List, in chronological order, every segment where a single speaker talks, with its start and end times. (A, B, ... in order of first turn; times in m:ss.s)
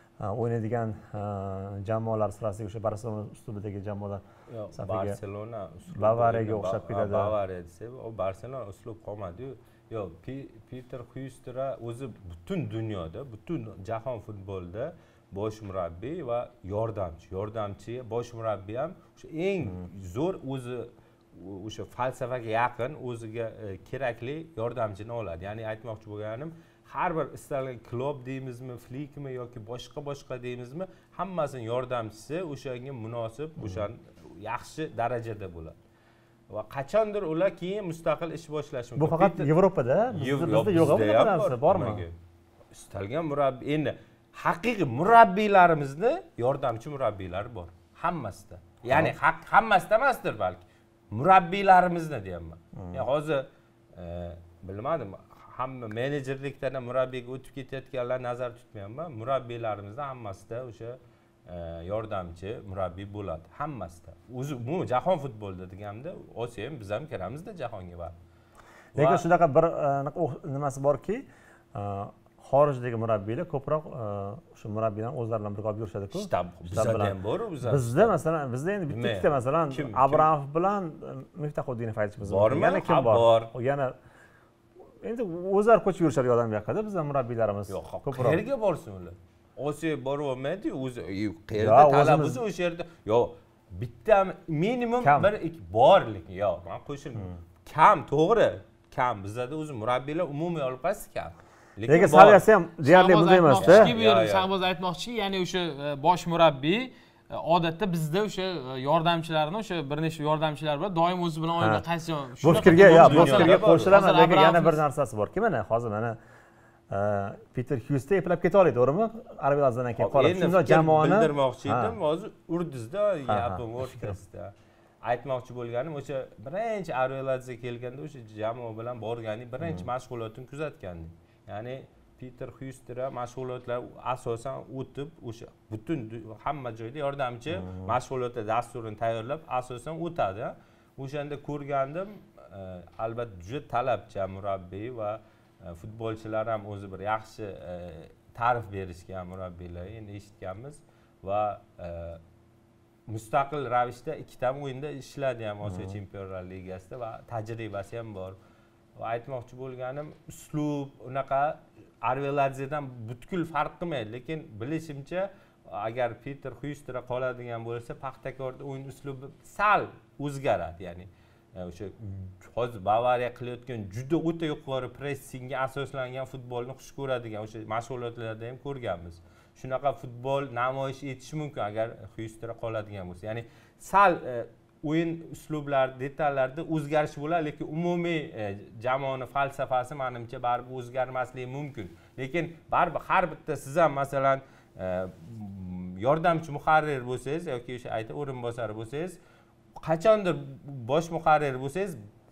0:00.2-0:04.2 A
0:04.5-0:35.8 B
0:04.7-0:05.2 A
0:05.9-0:07.3 A
0:33.6-0:33.8 A
0:36.5-0:39.5 B
0:39.0-0:42.0 A
0:40.1-0:42.2 B
0:42.7-1:08.1 B
0:52.8-0:53.1 A
1:08.9-1:09.2 B
1:09.0-1:23.9 A
1:16.1-1:18.1 B
1:18.9-1:20.3 B
1:22.2-1:23.5 B
1:25.0-1:28.4 A
1:27.7-1:42.4 B
1:31.5-1:32.4 A
1:35.0-1:35.3 A
1:41.8-1:43.9 A
1:42.8-1:54.8 C
1:43.6-1:44.5 B
1:51.6-1:51.8 A
1:52.4-1:56.2 A
1:52.5-1:53.9 B
1:56.9-2:02.0 A
2:00.0-2:04.5 B
2:03.3-2:04.2 A
2:05.0-2:32.2 B
2:09.6-2:09.9 A
2:17.5-2:17.9 A
2:33.1-2:38.4 B
2:35.6-2:36.0 A
2:39.0-3:19.2 B
3:19.8-3:22.0 B